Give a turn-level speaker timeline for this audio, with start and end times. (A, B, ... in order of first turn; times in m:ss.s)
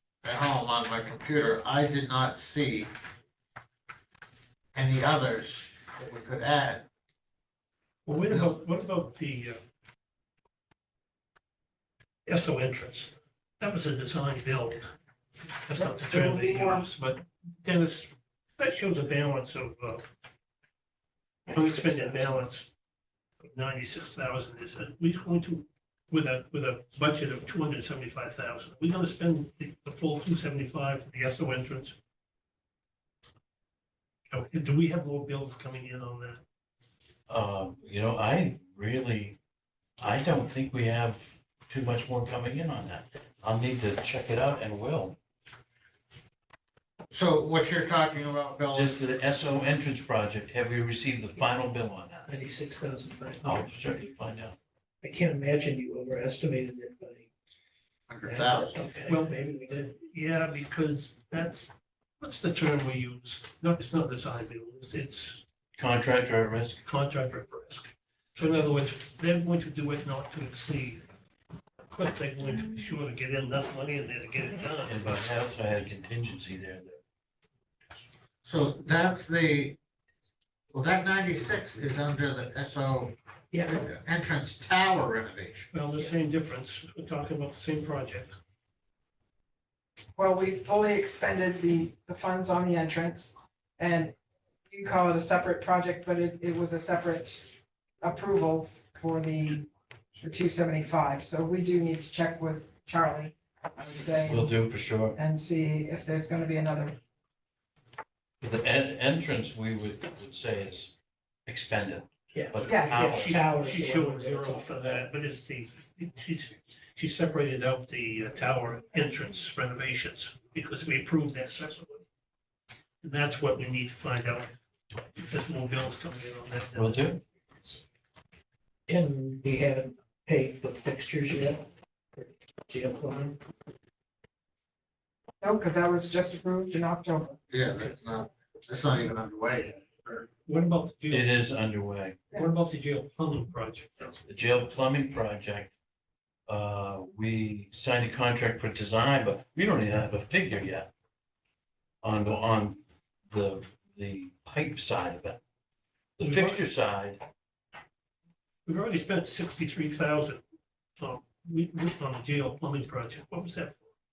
0:00.2-0:02.9 A
0:04.7-0:06.9 A
0:08.1-0:09.6 B
0:08.3-0:08.6 A
0:12.3-0:14.9 B
0:15.7-0:20.0 B
0:15.8-0:16.9 C
0:21.5-0:22.4 D
0:21.5-0:22.7 B
0:23.4-0:32.0 B
0:34.3-0:36.4 B
0:37.3-0:39.4 E
0:40.0-0:45.2 E
0:47.1-0:49.0 A
0:48.7-0:52.3 E
0:52.3-0:54.0 D
0:53.4-0:54.6 E
0:55.0-0:57.3 D
0:58.1-0:58.8 A
0:58.2-0:59.9 D
0:59.1-1:05.4 B
1:05.8-1:06.8 E
1:06.8-1:11.0 B
1:11.9-1:15.0 B
1:14.8-1:17.0 E
1:18.4-1:19.8 A
1:20.7-1:25.7 A
1:23.5-1:23.8 D
1:25.7-1:28.3 B
1:30.2-1:34.2 C
1:34.7-1:44.6 C
1:44.2-1:45.2 E
1:45.1-1:47.0 C
1:48.4-1:50.9 E
1:51.5-1:53.4 E
1:52.3-1:55.1 D
1:52.7-1:53.1 C
1:52.7-2:02.0 B
2:03.0-2:07.1 B
2:06.7-2:07.2 E
2:08.9-2:13.4 D
2:15.4-2:17.4 C
2:17.5-2:19.8 A
2:20.4-2:21.4 B
2:21.1-2:22.2 E
2:22.3-2:24.2 B
2:24.3-2:25.7 E
2:26.5-2:30.9 E
2:32.0-2:35.4 E
2:36.2-2:37.2 E
2:36.2-2:36.6 B
2:38.7-2:40.4 B
2:41.0-2:43.9 B